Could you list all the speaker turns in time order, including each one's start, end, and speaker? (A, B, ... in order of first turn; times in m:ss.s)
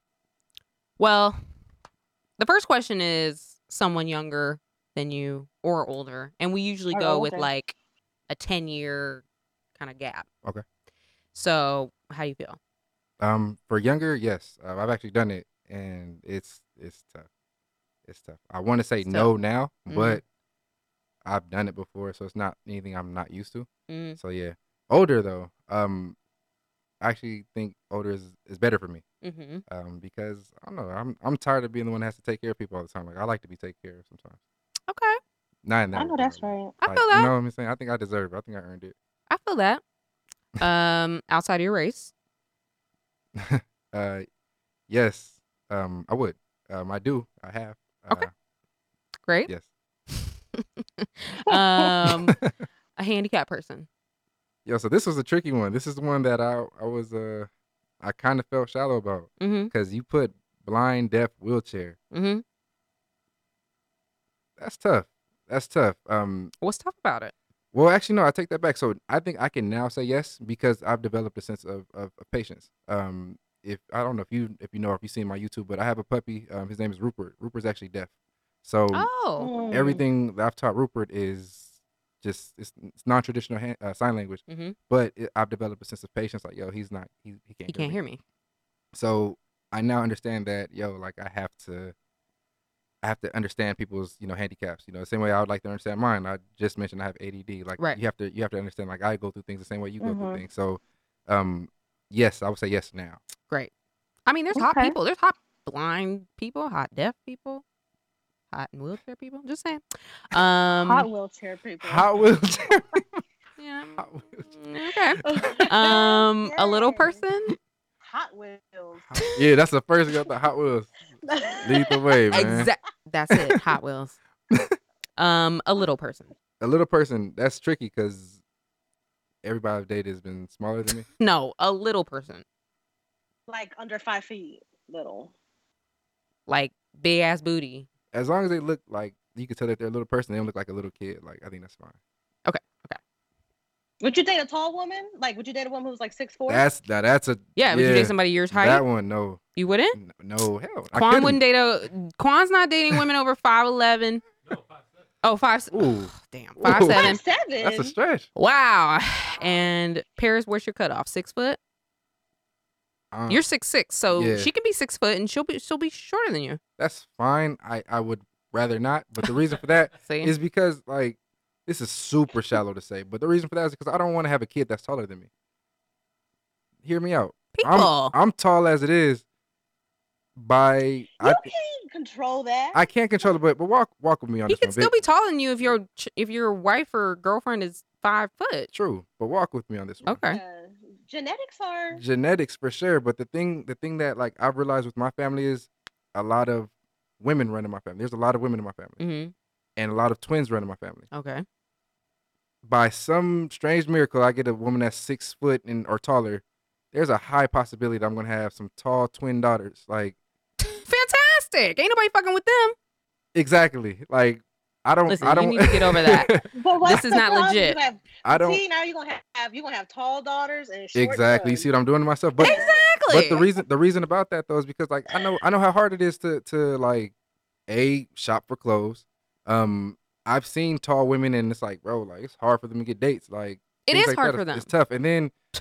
0:01.0-0:01.4 A
0:02.4-0:07.8 A
0:06.9-0:07.5 B
0:08.3-0:09.2 A
0:09.8-0:10.3 A
0:11.3-0:12.6 A
0:13.2-0:17.3 C
0:18.0-0:20.2 C
0:19.0-0:19.3 A
0:19.9-0:20.2 A
0:21.2-0:26.2 C
0:23.9-0:24.2 A
0:27.0-0:29.0 C
0:29.2-0:29.6 A
0:29.7-0:34.4 C
0:34.9-0:35.2 A
0:35.6-0:39.0 C
0:35.9-0:36.8 B
0:36.8-0:37.3 A
0:39.3-0:39.8 A
0:40.6-0:42.1 A
0:43.4-0:44.3 C
0:44.9-0:48.3 C
0:50.1-0:52.4 A
0:51.5-0:51.8 B
0:53.0-0:53.9 A
0:54.7-0:57.5 C
0:58.0-1:02.0 C
0:59.4-0:59.7 A
1:02.1-1:02.4 A
1:04.6-1:06.5 C
1:06.6-1:07.3 A
1:07.7-1:18.1 C
1:18.6-1:19.1 C
1:18.9-1:19.5 A
1:19.4-1:20.0 B
1:19.7-1:28.0 C
1:24.5-1:24.8 A
1:27.7-1:28.2 A
1:28.9-1:32.0 C
1:33.0-1:43.2 C
1:40.0-1:40.4 B
1:44.3-1:47.6 A
1:44.6-1:45.0 B
1:48.5-1:51.1 A
1:50.8-1:52.1 B
1:51.8-1:53.2 C
1:53.6-1:57.6 A
1:54.0-1:54.5 C
1:55.2-1:57.2 B
1:58.0-1:59.2 B
1:59.1-2:00.9 C
2:01.2-2:02.2 B
2:01.6-2:02.7 C
2:02.3-2:04.2 A
2:04.5-2:04.8 C
2:05.2-2:06.3 A
2:06.6-2:08.4 C
2:09.4-2:11.1 C
2:11.2-2:12.4 A
2:13.5-2:15.3 B
2:16.5-2:17.9 A
2:18.1-2:22.0 C
2:22.5-2:23.0 A
2:24.0-2:26.7 B
2:26.5-2:29.4 C
2:27.6-2:28.8 A
2:29.6-2:30.0 A
2:29.9-2:31.4 C
2:30.9-2:34.2 A
2:35.2-2:37.2 A
2:35.7-2:38.3 C
2:36.6-2:37.9 B
2:38.4-2:41.6 A
2:43.1-2:43.4 C
2:43.3-2:46.6 A
2:44.1-2:44.5 C
2:46.8-2:55.3 C
2:50.0-2:50.3 A
2:56.8-2:59.2 C
2:57.6-2:58.2 A
3:00.4-3:01.5 C
3:01.2-3:02.9 B
3:02.7-3:04.9 C
3:04.5-3:08.7 A
3:08.7-3:10.2 C
3:10.0-3:10.4 A
3:10.3-3:12.0 B
3:11.9-3:19.0 C
3:19.0-3:19.3 A
3:19.8-3:21.1 C
3:21.1-3:21.4 A
3:22.6-3:30.2 C
3:30.6-3:32.8 A
3:33.3-3:37.4 C
3:35.1-3:37.8 A
3:36.6-3:41.7 B
3:38.2-3:38.6 C
3:41.0-3:47.1 C
3:42.4-3:42.8 B
3:42.4-3:43.5 A
3:47.7-3:55.3 C
3:53.9-3:54.7 A